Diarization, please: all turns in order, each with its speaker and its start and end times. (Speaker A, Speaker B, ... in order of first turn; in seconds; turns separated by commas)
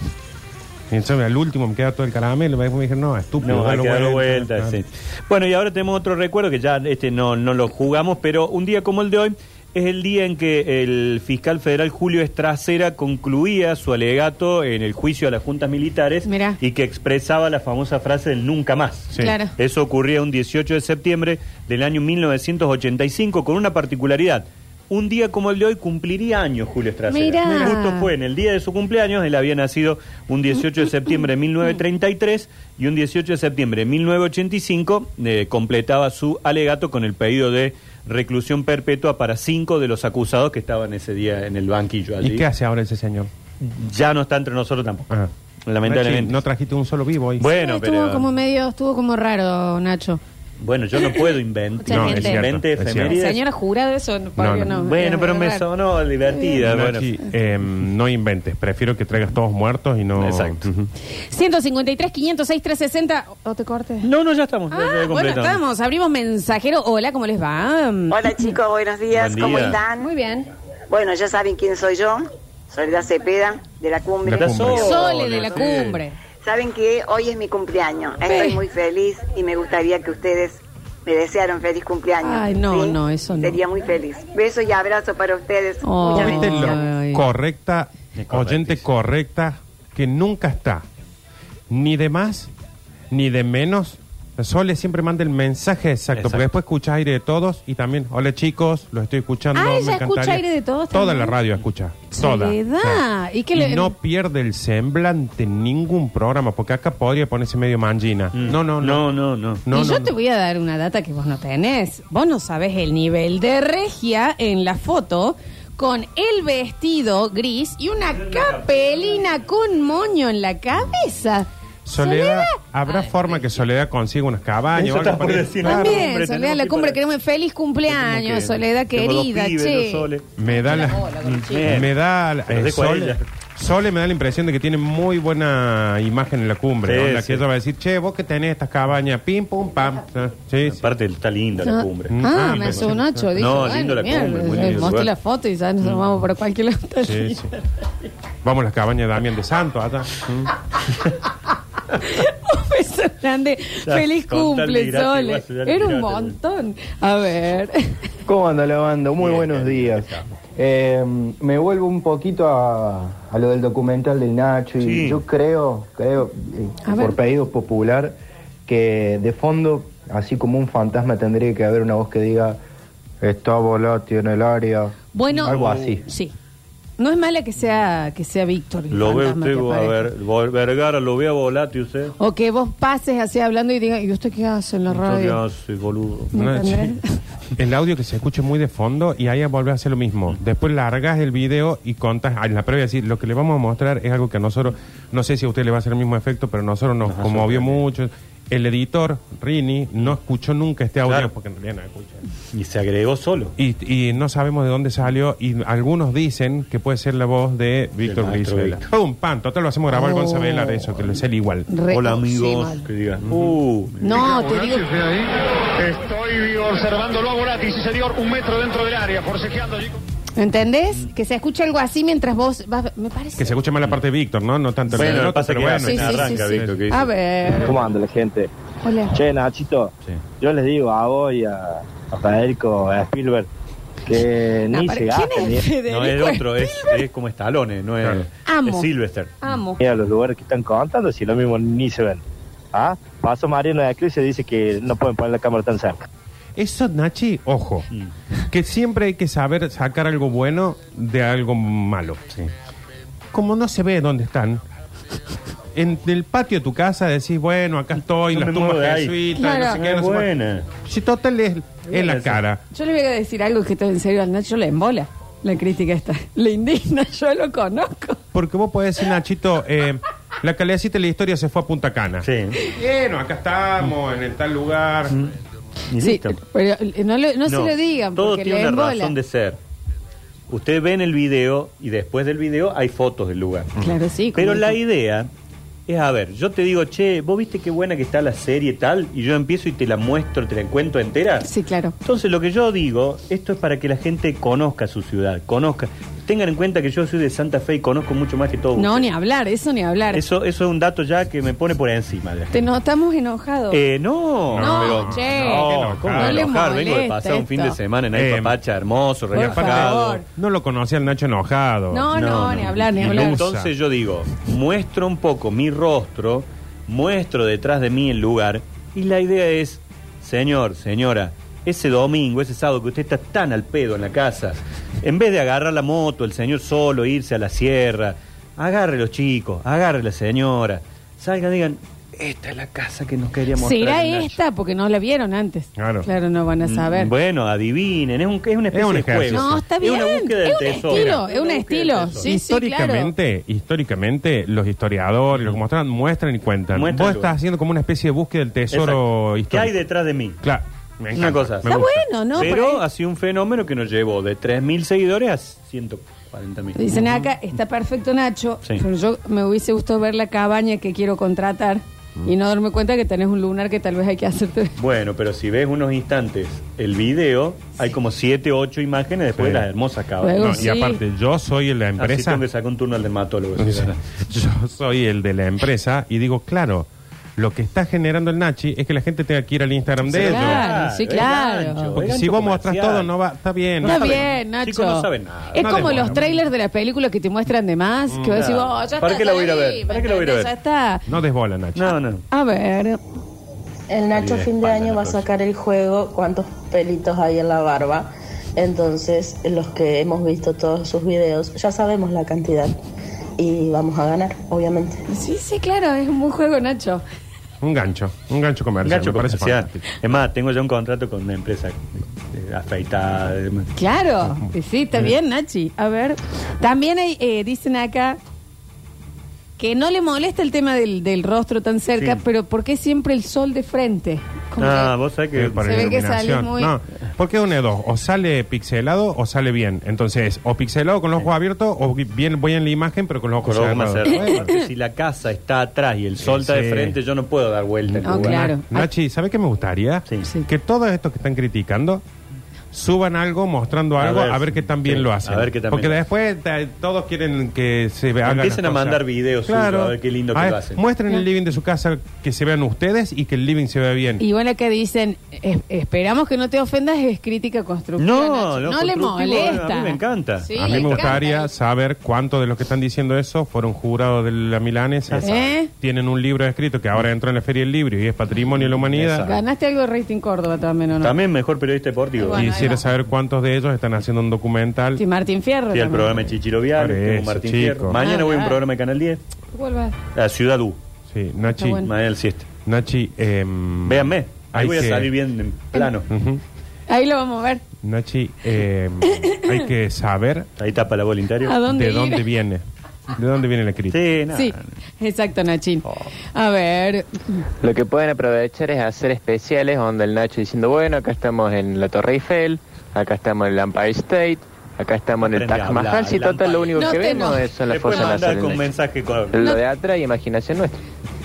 Speaker A: 0.9-4.8, Speaker B: 3.4-42.5, Speaker C: 16.2-16.6, Speaker C: 19.2-19.5, Speaker C: 27.1-28.1, Speaker A: 42.2-43.3, Speaker B: 43.6-45.1, Speaker B: 45.6-46.4, Speaker A: 45.8-47.5, Speaker B: 47.4-48.3, Speaker C: 47.4-50.2, Speaker B: 50.6-53.4, Speaker C: 51.0-52.4, Speaker A: 51.9-53.2, Speaker C: 53.0-55.6, Speaker A: 54.4-54.8, Speaker B: 54.7-57.1, Speaker C: 56.3-56.6, Speaker A: 56.6-60.9, Speaker B: 60.2-60.7, Speaker C: 61.3-64.1, Speaker B: 64.0-65.6, Speaker C: 64.7-68.5, Speaker D: 68.1-70.1, Speaker B: 69.1-69.8, Speaker C: 70.0-70.5, Speaker D: 70.9-75.0, Speaker A: 74.2-75.0, Speaker B: 74.4-76.0, Speaker C: 74.7-76.2, Speaker D: 76.4-86.7, Speaker C: 78.2-78.6, Speaker C: 82.2-83.6, Speaker C: 85.8-87.3, Speaker A: 86.2-90.8, Speaker B: 88.2-88.8, Speaker A: 91.7-92.5, Speaker A: 93.1-109.0, Speaker B: 96.1-96.5, Speaker C: 99.5-101.3, Speaker C: 102.1-103.9, Speaker B: 108.3-109.6, Speaker A: 109.6-110.1, Speaker C: 109.7-123.0, Speaker B: 118.1-119.4, Speaker A: 121.8-126.1, Speaker B: 124.7-127.0, Speaker C: 125.6-131.7, Speaker B: 127.9-130.3, Speaker A: 130.4-131.1, Speaker B: 131.2-131.9, Speaker A: 131.6-140.8, Speaker B: 132.5-133.2, Speaker B: 136.8-137.4, Speaker B: 140.7-145.1, Speaker C: 141.6-147.4, Speaker A: 142.1-143.6, Speaker A: 144.6-144.8, Speaker A: 147.0-147.5, Speaker A: 148.4-150.5, Speaker C: 151.9-158.0, Speaker B: 153.8-156.3, Speaker E: 158.2-168.1, Speaker B: 159.2-160.3, Speaker B: 164.8-165.2, Speaker C: 166.8-167.2, Speaker E: 168.7-172.6, Speaker E: 173.2-176.0, Speaker C: 175.1-176.3, Speaker B: 175.5-175.9, Speaker C: 177.0-180.1, Speaker B: 178.9-182.1, Speaker C: 182.2-185.4, Speaker B: 184.9-186.3, Speaker A: 186.3-186.9, Speaker C: 186.3-187.1, Speaker A: 187.6-202.2, Speaker B: 197.0-197.8, Speaker B: 201.1-201.3, Speaker B: 202.5-203.5, Speaker A: 203.6-211.7, Speaker B: 208.0-208.9, Speaker C: 209.9-210.9, Speaker C: 211.7-212.8, Speaker B: 211.9-214.2, Speaker A: 213.3-213.5, Speaker C: 214.0-214.9, Speaker F: 214.2-220.0, Speaker C: 220.4-223.5, Speaker A: 223.4-226.8, Speaker B: 224.9-227.1, Speaker C: 225.8-227.7, Speaker G: 227.6-228.5, Speaker C: 228.8-229.2, Speaker G: 229.1-233.5, Speaker G: 234.1-235.7, Speaker C: 234.7-237.0, Speaker B: 235.9-239.4, Speaker C: 238.4-238.9, Speaker C: 239.4-239.8, Speaker G: 239.8-242.2, Speaker G: 242.7-246.0, Speaker A: 246.6-247.9, Speaker A: 248.5-252.2, Speaker A: 253.3-254.6, Speaker A: 255.7-260.3, Speaker B: 258.3-260.7, Speaker C: 259.4-259.8, Speaker A: 260.8-262.6, Speaker B: 261.9-262.4, Speaker C: 262.7-268.2, Speaker A: 268.3-275.1, Speaker B: 272.2-272.6, Speaker B: 275.9-276.4, Speaker C: 276.0-279.1, Speaker B: 277.5-279.6, Speaker B: 280.5-283.8, Speaker C: 283.8-284.8, Speaker B: 284.3-285.3, Speaker B: 285.9-291.5, Speaker C: 291.4-291.9, Speaker B: 292.0-299.1, Speaker C: 298.8-300.2, Speaker B: 300.1-302.6, Speaker C: 302.5-303.8, Speaker B: 303.7-310.2, Speaker A: 304.5-306.5, Speaker C: 304.6-307.8, Speaker A: 308.1-308.6, Speaker C: 309.3-310.2, Speaker A: 309.3-313.7, Speaker C: 311.9-313.4, Speaker B: 312.1-334.4, Speaker C: 333.6-337.1, Speaker A: 335.8-336.1, Speaker B: 336.6-342.3, Speaker A: 338.7-339.6, Speaker C: 339.3-343.1, Speaker A: 340.9-341.2, Speaker A: 342.2-349.7, Speaker B: 346.7-347.3, Speaker B: 348.7-350.4, Speaker A: 350.4-352.0, Speaker B: 351.1-351.8, Speaker C: 351.6-352.8, Speaker B: 352.3-357.1, Speaker C: 356.8-364.7, Speaker B: 364.8-370.7, Speaker A: 369.4-369.7, Speaker C: 370.2-371.0, Speaker A: 370.4-372.4, Speaker B: 372.0-374.0, Speaker A: 373.6-380.7, Speaker B: 380.1-383.1, Speaker C: 380.2-381.9, Speaker A: 382.0-384.2, Speaker B: 383.8-386.1, Speaker C: 383.8-391.0, Speaker A: 385.6-386.4, Speaker A: 388.1-388.4, Speaker B: 388.3-390.5, Speaker A: 391.1-391.9, Speaker B: 391.8-392.2, Speaker C: 392.3-393.0, Speaker H: 393.9-402.8, Speaker B: 394.1-395.2, Speaker H: 403.4-405.0, Speaker C: 405.1-407.0, Speaker A: 407.6-409.9, Speaker B: 408.8-413.7, Speaker C: 413.8-418.2, Speaker C: 419.6-424.9, Speaker B: 424.6-425.9, Speaker A: 425.3-434.5, Speaker C: 425.6-426.7, Speaker B: 433.4-438.5, Speaker C: 434.1-434.6, Speaker A: 436.2-437.0, Speaker A: 437.9-442.0, Speaker C: 438.0-438.9, Speaker A: 442.7-454.2, Speaker B: 444.0-446.0, Speaker B: 448.2-450.8, Speaker C: 454.2-461.5, Speaker B: 458.0-461.2, Speaker A: 460.6-469.3, Speaker C: 465.2-465.7, Speaker B: 468.6-469.4, Speaker C: 469.2-471.1, Speaker B: 471.0-472.7, Speaker C: 472.2-472.8, Speaker A: 472.3-475.0, Speaker C: 475.0-476.2, Speaker B: 475.7-479.2, Speaker A: 476.7-477.9, Speaker C: 477.9-478.6, Speaker C: 479.5-479.9, Speaker B: 480.1-480.8, Speaker A: 481.1-481.9, Speaker C: 481.5-481.9, Speaker B: 481.8-482.5, Speaker A: 482.6-485.1, Speaker B: 483.9-486.1, Speaker A: 486.1-486.4, Speaker C: 486.9-487.6, Speaker A: 487.8-490.5, Speaker C: 489.1-489.6, Speaker B: 490.6-491.6, Speaker C: 491.4-492.2, Speaker A: 491.7-494.0, Speaker B: 493.9-494.7, Speaker C: 494.3-497.4, Speaker I: 497.6-508.7, Speaker B: 505.2-509.4, Speaker C: 506.8-508.1, Speaker I: 509.3-510.8